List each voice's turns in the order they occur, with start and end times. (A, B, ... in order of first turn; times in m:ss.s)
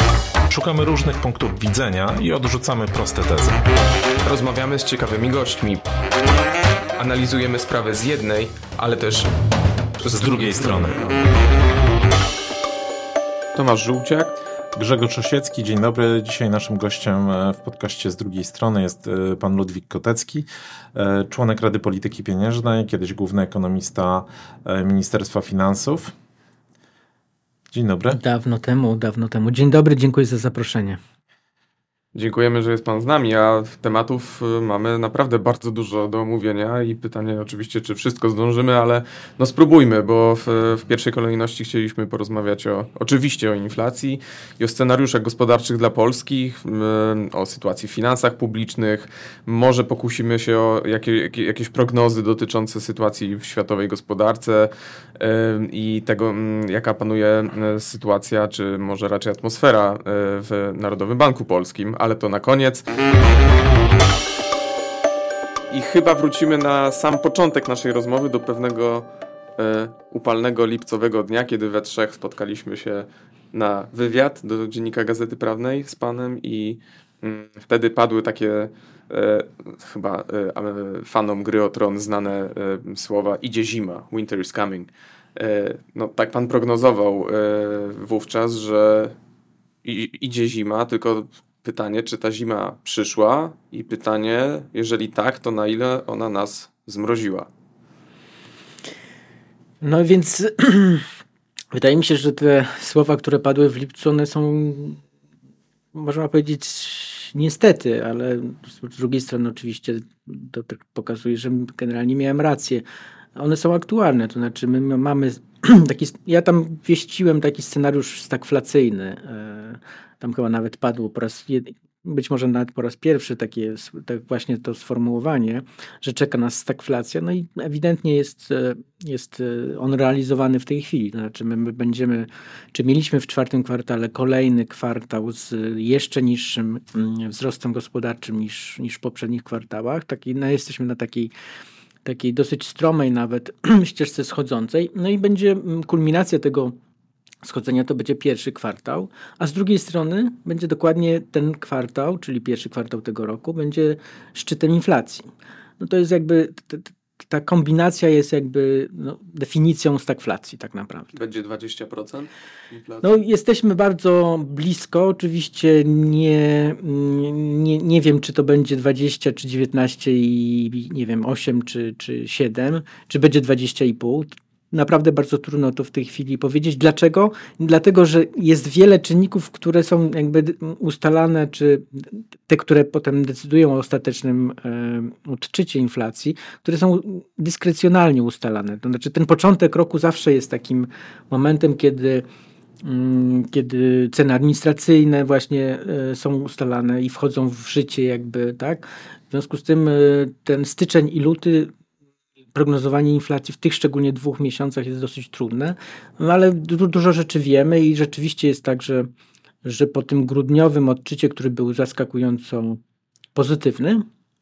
0:00.5-0:03.6 A
0:04.2-0:05.8 B
0:07.0-0:09.3 B
0:10.0-0:11.1 A
0:13.5-0:14.4 B
0:14.8-0:26.1 A
0:27.7-0:28.2 A
0:28.1-0:31.0 C
0:32.1-1:02.8 B
1:05.7-1:09.0 B
1:09.6-1:29.2 B
1:29.8-1:37.5 B
1:39.8-1:41.1 C
1:41.7-1:45.0 C
1:45.9-1:52.8 C
1:53.4-2:21.3 C
2:22.0-2:26.8 C
2:27.4-2:35.3 C
2:35.8-2:41.1 C
2:41.1-2:43.1 B
2:43.0-3:12.2 C
3:12.8-3:21.7 C
3:22.5-3:29.1 C
3:29.6-3:32.8 C
3:33.3-3:34.0 C